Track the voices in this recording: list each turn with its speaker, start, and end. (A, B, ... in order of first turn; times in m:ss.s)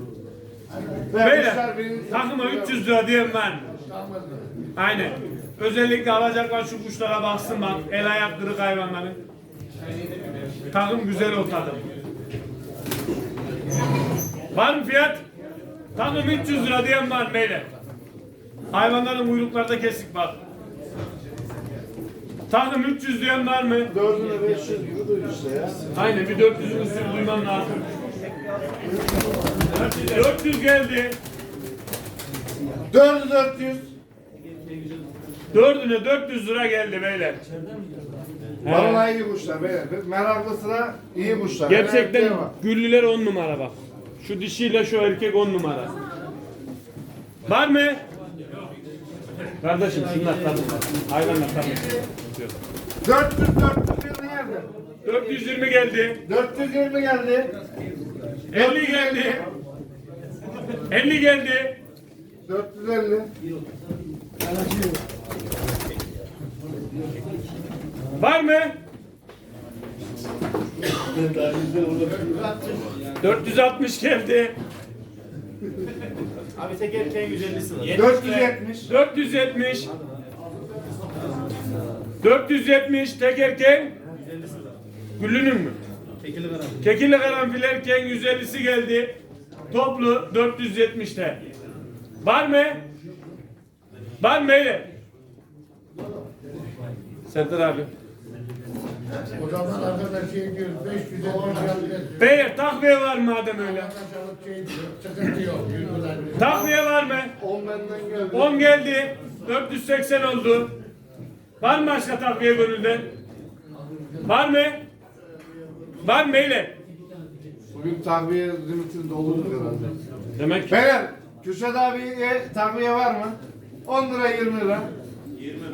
0:01.1-0:02.8 A
0:01.2-0:03.7 B
0:03.7-0:04.5 C
0:04.8-0:09.2 B
0:10.7-0:11.8 B
0:14.5-0:15.2 B
0:16.0-0:17.7 B
0:18.7-0:20.4 B
0:22.5-0:23.9 B
0:23.9-0:25.8 A
0:26.0-0:27.9 B
0:28.0-0:29.0 D
0:29.7-0:30.1 D
0:29.7-0:31.2 B
0:32.9-0:33.9 A
0:35.5-0:37.4 B
0:38.6-0:39.0 B
0:38.6-0:42.5 A
0:41.7-0:46.0 B
0:47.4-0:48.0 B
0:49.6-0:52.6 B
0:53.0-0:54.7 A
0:55.0-0:56.2 B
0:56.3-0:57.5 A
0:58.5-0:59.5 B
0:58.5-0:59.5 A
1:00.9-1:01.8 B
1:02.5-1:03.3 A
1:08.2-1:08.8 B
1:12.1-1:12.8 C
1:13.2-1:14.6 B
1:16.6-1:18.0 D
1:17.9-1:19.9 B
1:17.9-1:18.9 A
1:22.2-1:23.9 B
1:24.1-1:24.8 D
1:25.2-1:25.8 B
1:26.2-1:26.8 D
1:26.8-1:29.2 B
1:29.7-1:31.4 B
1:32.2-1:32.8 B
1:34.2-1:34.9 B
1:37.3-1:37.9 B
1:39.4-1:42.3 C
1:42.2-1:43.9 B
1:43.6-1:46.6 C
1:46.4-1:47.3 B
1:47.4-1:48.6 A
1:48.3-1:50.7 B
1:51.6-1:53.1 B
1:53.8-1:54.2 C
1:54.2-1:54.8 B
1:56.0-1:56.8 B
1:57.7-2:00.0 A
2:00.4-2:00.8 B
2:00.7-2:04.9 A